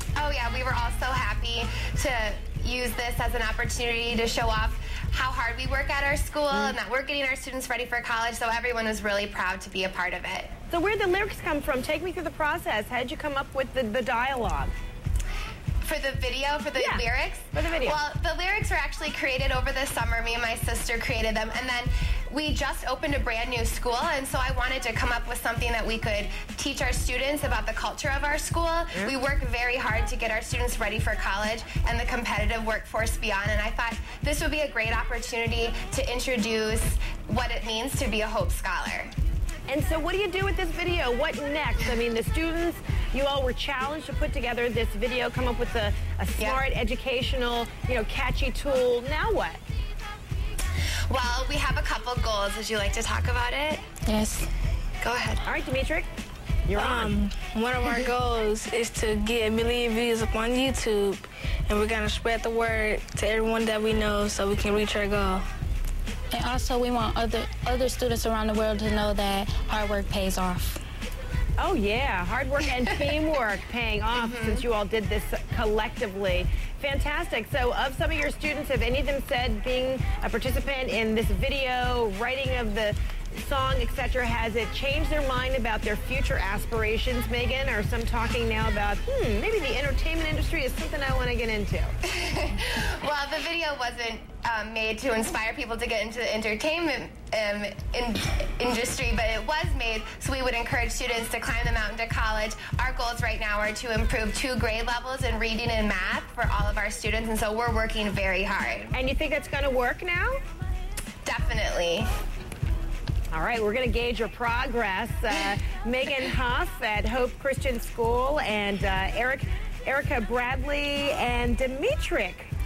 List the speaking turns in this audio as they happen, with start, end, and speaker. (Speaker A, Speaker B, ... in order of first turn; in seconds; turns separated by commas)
Speaker A: 0.1-10.5, Speaker B: 6.5-6.8, Speaker B: 10.7-14.7, Speaker A: 15.8-39.1, Speaker B: 16.8-18.0, Speaker B: 39.7-49.6, Speaker A: 51.1-53.8, Speaker C: 54.0-54.5, Speaker A: 55.0-55.4, Speaker B: 55.4-56.1, Speaker B: 56.7-57.2, Speaker D: 56.7-65.5, Speaker C: 66.3-70.8, Speaker B: 71.6-91.9, Speaker A: 74.1-74.6, Speaker A: 92.1-108.9, Speaker B: 108.9-110.4, Speaker A: 111.2-112.1, Speaker B: 113.3-122.5